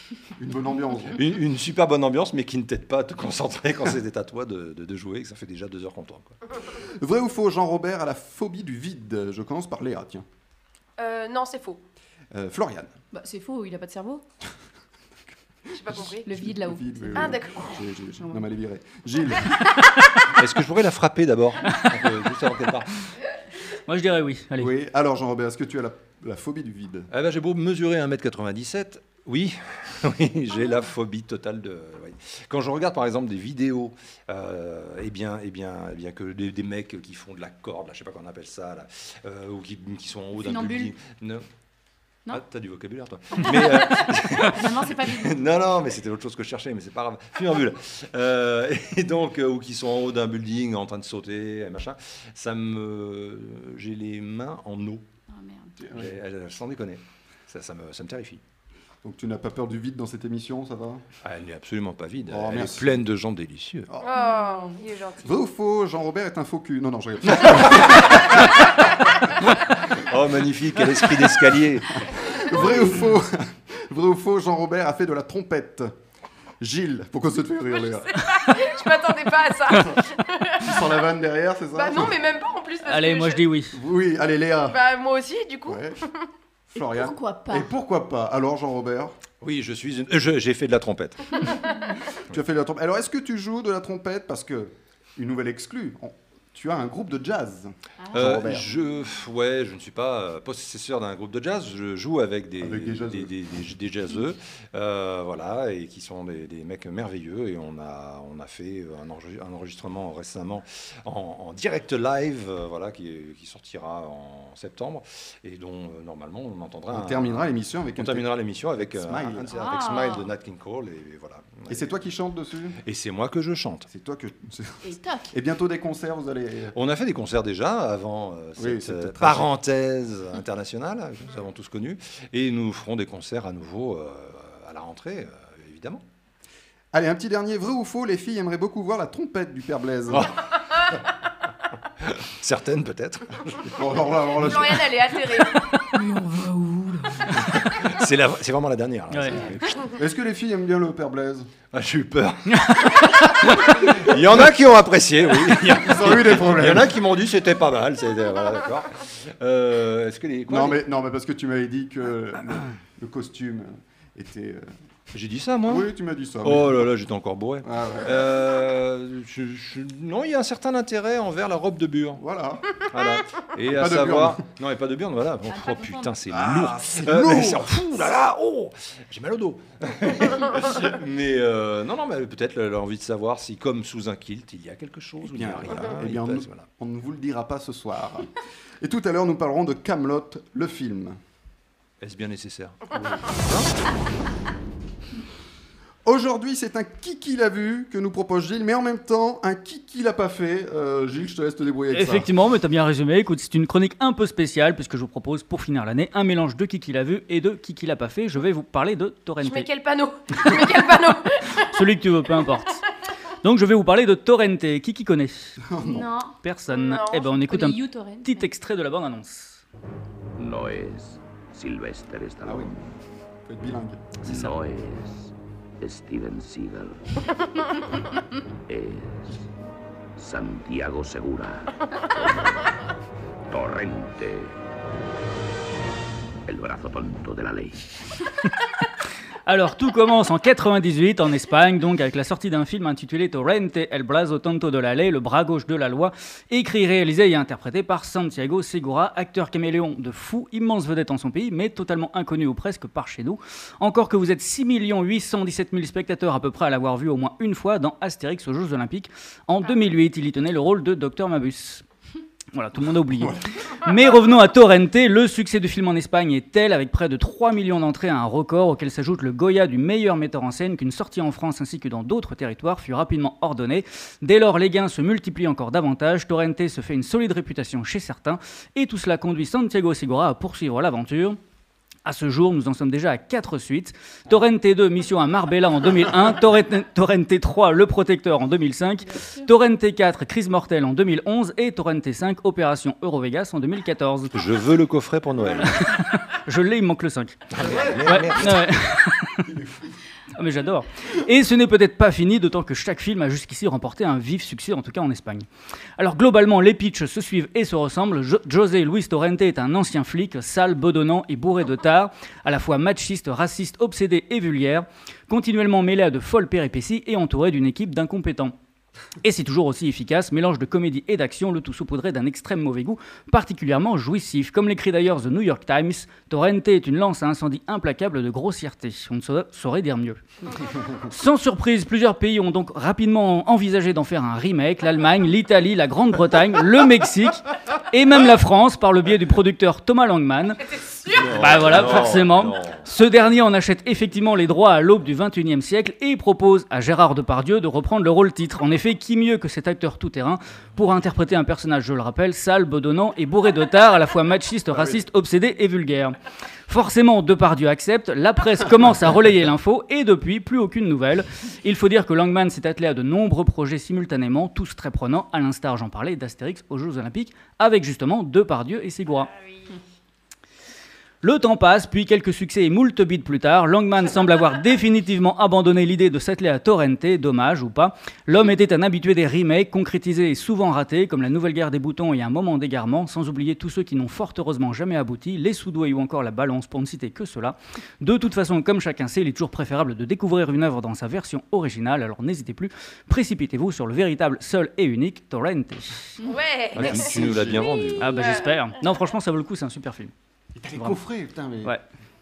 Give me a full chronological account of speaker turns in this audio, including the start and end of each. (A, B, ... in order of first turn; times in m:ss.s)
0:00.4-0:01.2 A
0:01.2-0:06.4 B
0:06.7-0:10.3 A
0:11.0-0:11.8 C
0:12.3-0:12.9 A
0:13.1-0:14.2 D
0:15.8-0:16.2 C
0:15.9-0:19.7 A
0:16.2-0:17.4 D
0:17.2-0:17.8 C
0:20.3-0:22.9 B
0:23.9-0:24.7 E
0:24.6-0:27.1 A
0:27.1-0:41.4 B
0:40.4-0:40.9 D
0:42.3-0:55.0 B
0:43.4-0:45.6 D
0:55.3-0:55.8 D
0:55.8-0:56.1 A
0:55.9-0:58.4 B
0:59.0-1:01.0 A
1:01.2-1:03.9 B
1:02.3-1:03.0 A
1:04.0-1:05.2 C
1:04.2-1:04.8 D
1:05.2-1:08.4 A
1:07.4-1:08.4 B
1:09.9-1:12.9 B
1:12.4-1:15.9 A
1:16.6-1:18.2 A
1:17.9-1:20.9 C
1:20.6-1:22.2 A
1:21.8-1:23.4 C
1:22.9-1:23.8 E
1:23.7-1:24.8 A
1:24.7-1:26.2 C
1:25.7-1:26.0 A
1:26.7-1:29.2 A
1:26.8-1:27.7 D
1:29.4-1:31.4 B
1:32.3-1:38.6 A
1:38.0-1:38.7 D
1:38.1-2:01.9 B
1:42.6-1:43.3 A
1:56.9-1:59.5 A
1:59.5-2:00.3 D
2:01.7-2:02.8 A
2:02.8-2:03.9 B
2:03.9-2:06.8 A
2:04.8-2:05.3 D
2:06.7-2:16.0 B
2:08.6-2:09.5 A
2:16.9-2:20.3 A
2:22.0-2:23.8 B
2:23.7-2:24.9 A
2:24.6-2:25.2 C
2:24.9-2:27.0 D
2:27.3-2:29.9 B
2:29.1-2:29.4 E
2:29.9-2:31.5 A
2:31.7-2:40.8 B
2:35.8-2:37.0 A
2:40.5-2:44.7 A
2:45.1-2:45.9 B
2:45.6-2:46.9 A
2:46.4-2:52.2 B
2:47.6-2:48.3 A
2:52.2-2:52.6 A
2:52.9-3:06.7 B
2:53.7-2:54.4 A
2:55.5-2:56.2 D
2:56.3-2:57.8 A
3:05.2-3:11.2 A
3:12.0-3:13.7 B
3:16.0-3:22.3 A
3:21.9-3:29.7 E
3:29.4-3:31.6 C
3:31.7-3:32.8 E
3:33.4-3:35.6 E
3:35.6-3:36.1 A
3:35.8-3:36.4 D
3:36.4-3:39.6 E
3:36.7-3:37.3 C
3:37.3-3:38.5 D
3:40.4-3:42.8 F
3:42.4-3:42.9 A
3:43.4-3:44.0 A
3:44.2-3:47.0 F
3:44.3-3:44.6 E
3:48.7-3:49.4 F
3:50.2-3:52.6 F
3:53.5-3:54.6 F
3:56.5-3:57.9 F
3:59.5-4:21.8 E
4:22.5-4:41.4 E
4:42.0-4:54.3 E
4:54.3-4:55.8 B
4:55.6-4:57.4 E
4:57.5-4:58.7 B
4:57.6-4:58.3 A
4:58.0-4:59.5 E
4:59.5-4:59.9 A
5:00.4-5:05.5 E
5:06.0-5:18.5 E
5:19.2-5:30.2 E
5:31.0-5:40.6 E
5:40.7-5:42.0 C
5:41.1-5:42.8 B
5:41.3-5:56.2 E
5:54.7-5:55.0 A
5:56.7-6:09.3 E
6:09.2-6:09.7 C
6:11.2-6:36.2 E
6:36.2-6:38.6 C
6:36.7-6:38.4 B
6:36.8-6:37.6 A
6:38.0-6:40.1 E
6:40.6-6:41.8 A
6:40.7-6:41.0 E